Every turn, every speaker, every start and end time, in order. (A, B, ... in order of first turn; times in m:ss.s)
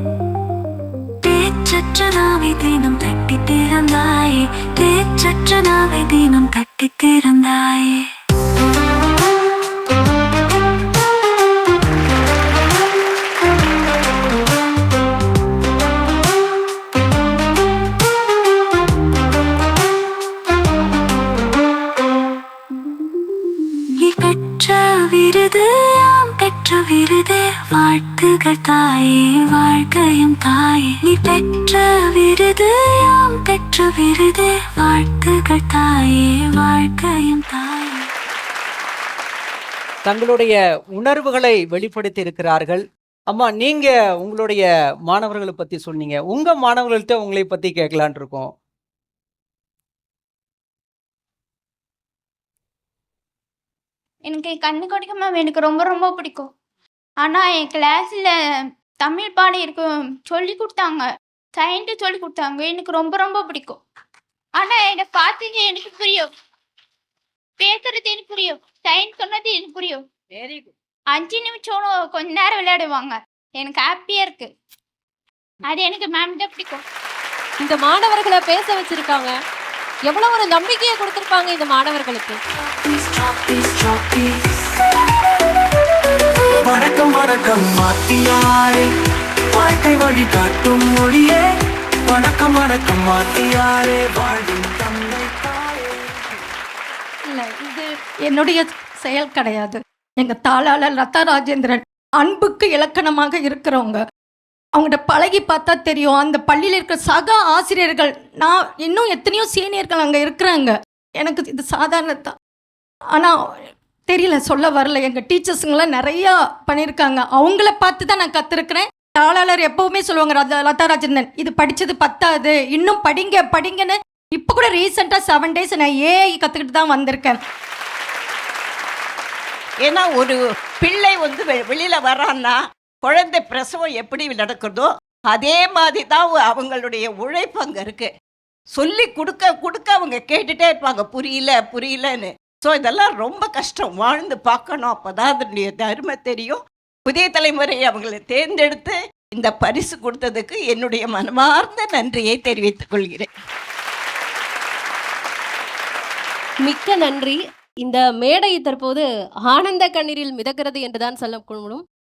0:01.2-0:08.0 A
0:24.1-0:38.0 A
0:40.0-0:48.5 B
0:54.2-0:56.5 C
0:57.2-0:58.3 C
0:59.0-1:03.8 C
1:04.6-1:06.3 C
1:07.6-1:10.0 C
1:11.1-1:14.5 C
1:15.7-1:16.8 C
1:17.6-1:19.3 D
1:20.1-1:22.4 D
1:22.9-1:24.3 E
1:26.6-1:28.9 E
1:29.5-1:31.4 E
1:32.1-1:35.8 E
1:37.2-1:44.0 F
1:44.7-1:52.4 F
1:53.1-2:07.4 F
2:09.8-2:18.1 G
2:18.7-2:33.3 G
2:36.6-2:41.8 D